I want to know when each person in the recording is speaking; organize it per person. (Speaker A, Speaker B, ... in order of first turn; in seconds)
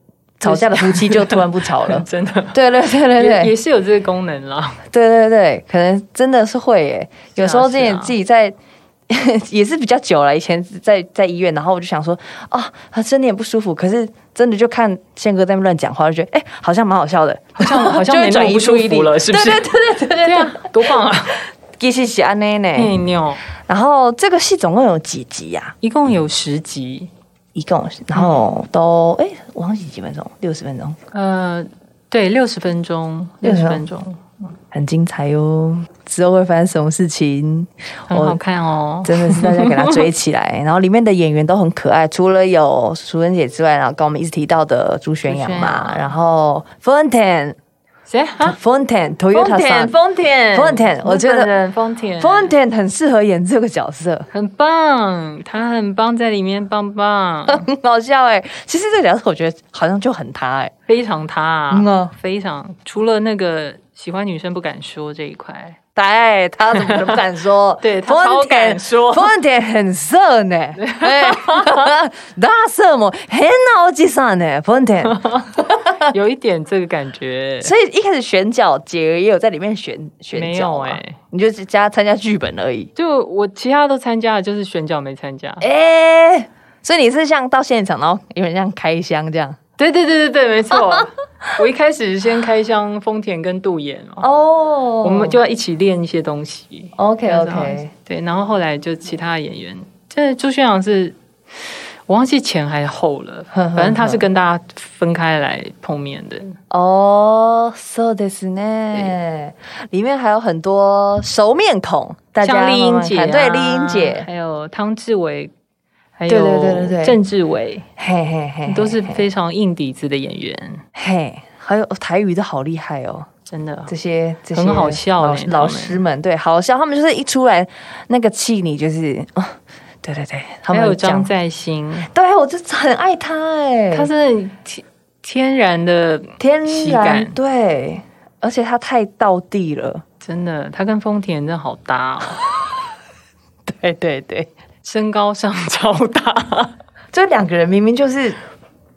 Speaker A: 0.4-3.5, 4.9-8.6, 9.1-23.0, 23.6-25.8, 27.6-31.0, 33.4-33.8, 34.7-38.4, 39.0-47.6, 48.4-50.0, 50.5-51.5, 52.2-54.3, 57.5-60.7, 61.7-62.1, 66.0-76.1, 77.6-82.9, 85.6-89.6, 90.7-91.0, 94.2-95.4, 97.0-97.9, 103.5-104.2, 106.7-114.3, 116.3-117.2, 118.0-119.2, 121.0-123.3, 123.9-131.3, 132.1-134.1, 136.4-140.0, 143.7-144.5, 147.1-148.4
Speaker B: 0.5-2.6, 3.1-4.8, 7.4-8.2, 17.6-19.7, 20.2-21.4, 22.8-23.4, 25.8-27.1, 28.1-28.4, 31.1-34.5, 38.1-40.1, 45.3-46.1, 48.1-48.6, 49.3-52.5, 54.3-57.7, 60.9-65.8, 66.8-67.2, 67.8-69.3, 70.8-71.9, 75.0-77.7, 80.3-81.2, 83.0-85.7, 89.8-94.3, 95.0-101.2, 102.1-106.5, 112.4-115.5, 116.2-117.9, 118.7-120.8, 123.5-123.9, 124.5-126.0, 130.7-132.1, 133.9-137.4, 140.2-142.4, 144.8-146.7